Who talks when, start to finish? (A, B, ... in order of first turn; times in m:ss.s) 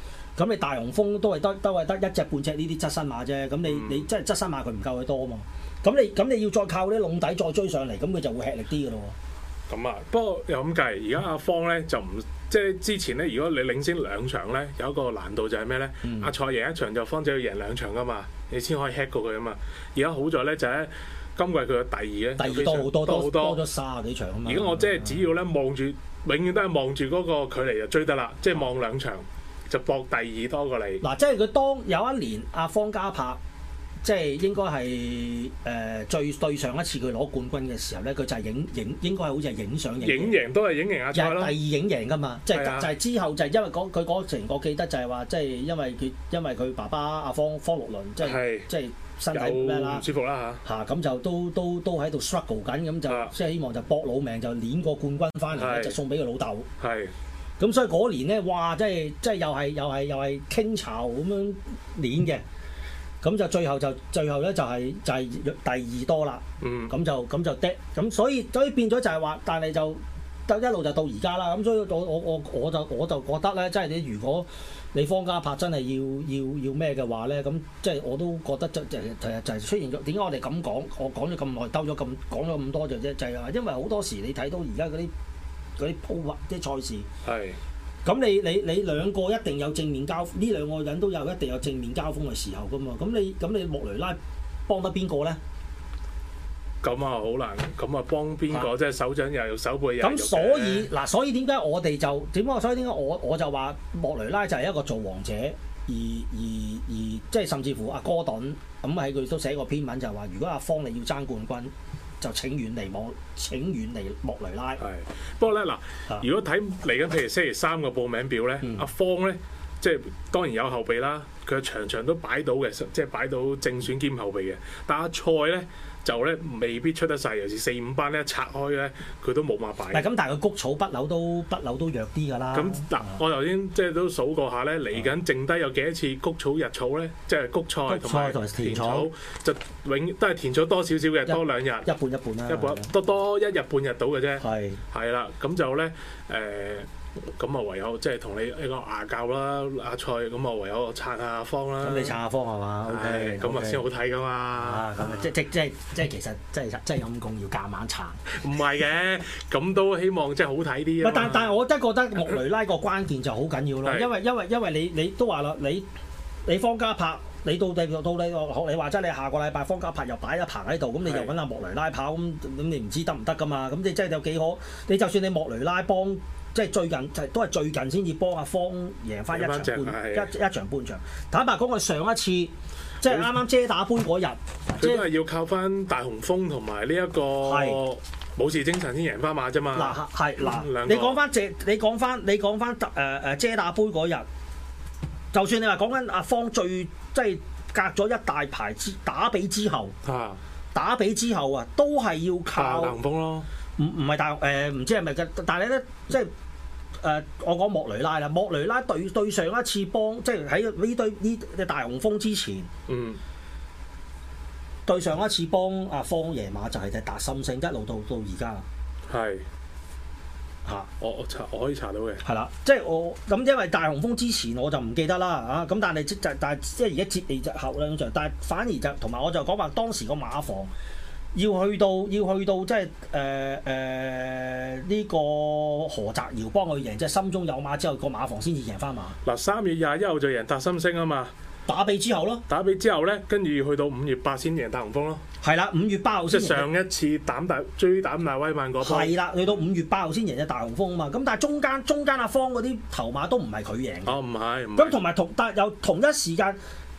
0:00.4-0:09.1 A
0:03.6-0:04.1 B
0:09.7-0:23.6 B
0:16.0-0:16.3 A
0:22.4-0:25.3 A
0:24.4-0:31.0 B
0:31.0-0:33.4 A
0:34.0-0:40.4 A
0:40.0-0:41.6 B
0:41.1-0:50.0 A
0:42.5-0:42.9 B
0:48.2-0:48.7 B
0:49.3-0:50.6 B
0:50.6-0:56.7 A
0:53.0-0:53.3 B
0:55.5-0:56.0 B
0:56.8-0:57.1 B
0:57.6-1:02.4 A
1:03.2-1:25.1 A
1:06.6-1:06.9 B
1:25.8-1:27.1 A
1:27.2-1:27.6 B
1:28.0-1:35.4 A
1:36.8-1:40.9 B
1:40.0-1:54.8 A
1:54.8-2:10.1 B
1:58.6-1:58.9 A
2:09.9-2:13.2 A
2:12.5-2:21.9 B
2:17.9-2:19.1 A
2:21.2-2:22.9 A
2:22.5-2:32.2 B
2:24.4-2:24.8 A
2:31.8-2:33.8 A
2:32.8-2:35.3 B
2:34.5-2:38.2 A
2:38.3-2:41.5 B
2:41.0-2:45.8 A
2:43.8-2:44.1 B
2:46.4-3:05.0 A
2:51.0-2:51.3 B
2:59.3-3:00.3 B
3:03.0-3:03.4 B
3:04.8-3:11.2 B
3:07.4-3:07.8 A
3:09.7-3:14.2 A
3:15.3-3:19.9 A
3:20.0-3:20.4 B
3:20.7-3:23.0 A
3:22.5-3:23.5 B
3:23.8-3:26.3 A
3:27.0-3:32.7 A
3:32.9-3:33.2 B
3:34.8-3:38.6 A
3:39.1-3:39.4 B
3:40.6-3:40.9 A
3:41.0-3:42.2 B
3:42.2-3:50.7 A
3:51.3-3:59.2 A
3:59.2-4:01.3 B
4:01.7-4:02.4 A
4:02.5-4:05.2 B
4:05.4-4:06.7 A
4:06.3-4:09.1 B
4:08.8-4:14.2 A
4:14.0-4:15.0 B
4:14.8-4:16.6 A